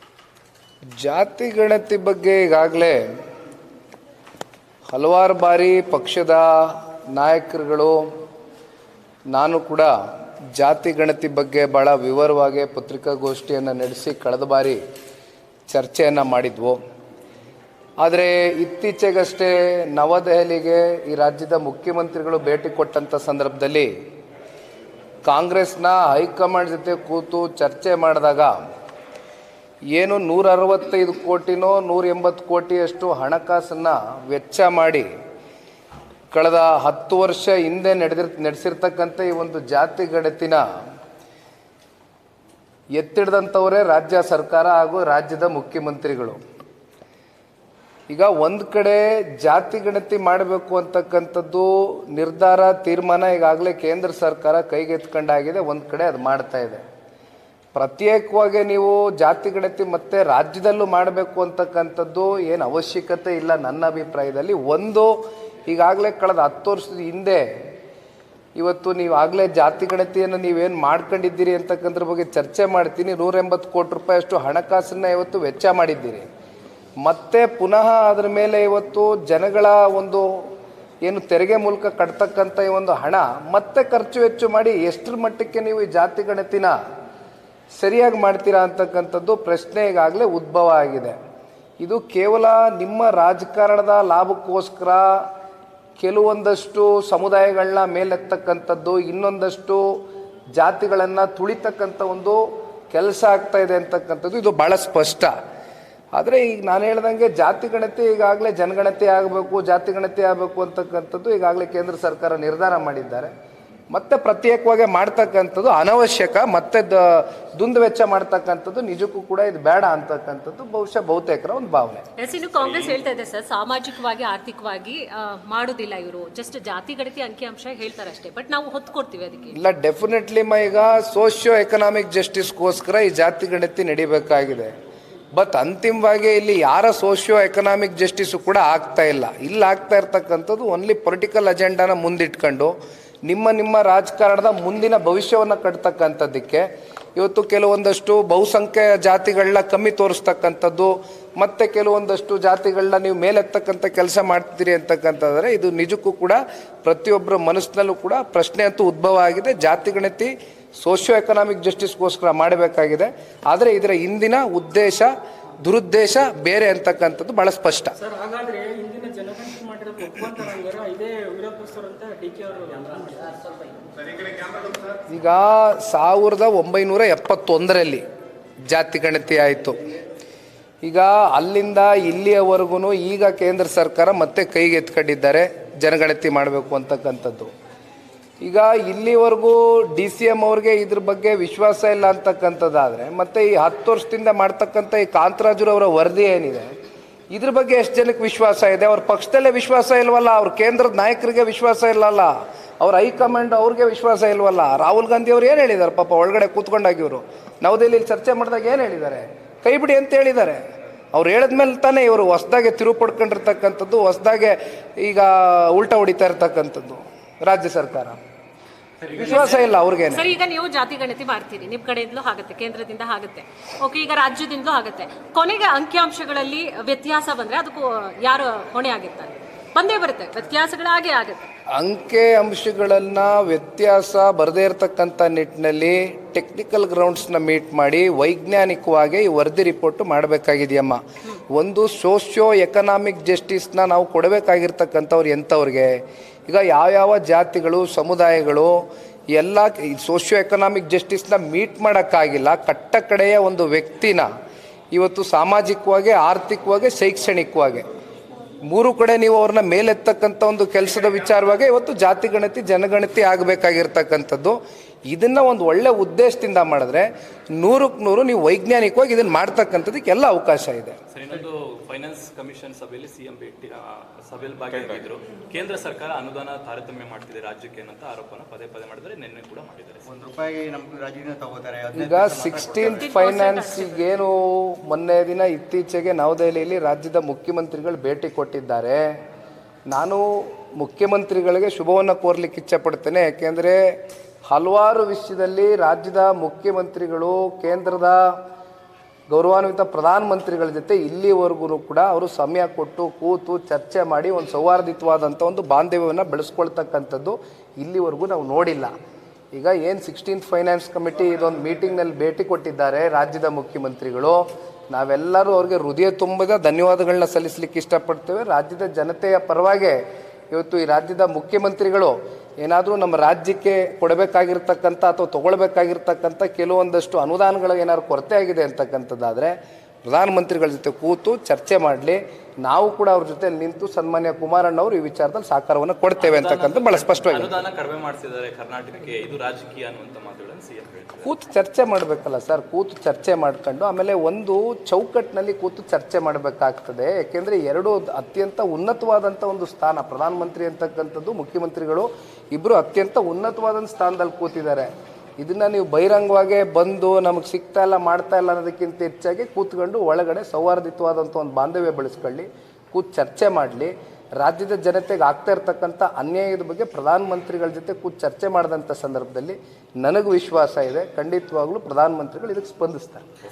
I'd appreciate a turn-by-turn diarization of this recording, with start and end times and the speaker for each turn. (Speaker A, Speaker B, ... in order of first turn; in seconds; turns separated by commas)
Speaker A: 1.0-3.0, Speaker A: 4.9-8.1, Speaker A: 9.3-9.9, Speaker A: 10.6-14.8, Speaker A: 15.7-16.8, Speaker A: 18.0-23.9, Speaker A: 25.2-28.6, Speaker A: 29.9-35.1, Speaker A: 36.3-40.6, Speaker A: 42.9-46.4, Speaker A: 48.1-56.8, Speaker A: 57.7-67.5, Speaker A: 68.6-76.3, Speaker A: 77.0-80.5, Speaker A: 81.0-86.8, Speaker A: 87.8-91.2, Speaker A: 91.8-95.3, Speaker A: 96.0-100.0, Speaker A: 100.5-105.3, Speaker A: 106.1-113.3, Speaker A: 113.9-122.0, Speaker B: 122.2-129.6, Speaker C: 122.6-123.0, Speaker A: 129.6-134.7, Speaker A: 135.3-167.9, Speaker D: 168.0-173.4, Speaker A: 175.1-178.0, Speaker A: 178.7-179.8, Speaker A: 180.8-187.5, Speaker A: 188.4-196.7, Speaker A: 197.3-210.6, Speaker A: 211.1-218.2, Speaker C: 219.0-219.7, Speaker A: 219.2-220.3, Speaker B: 220.1-231.4, Speaker A: 231.7-254.3, Speaker A: 254.9-257.9, Speaker A: 258.7-267.1, Speaker A: 267.6-271.0, Speaker C: 271.1-280.1, Speaker E: 280.1-283.1, Speaker A: 281.9-289.0, Speaker B: 282.9-284.0, Speaker A: 289.9-293.9, Speaker A: 294.5-298.4, Speaker A: 299.3-308.9, Speaker A: 309.5-320.0, Speaker A: 320.5-337.6, Speaker C: 336.2-341.3, Speaker A: 341.2-373.2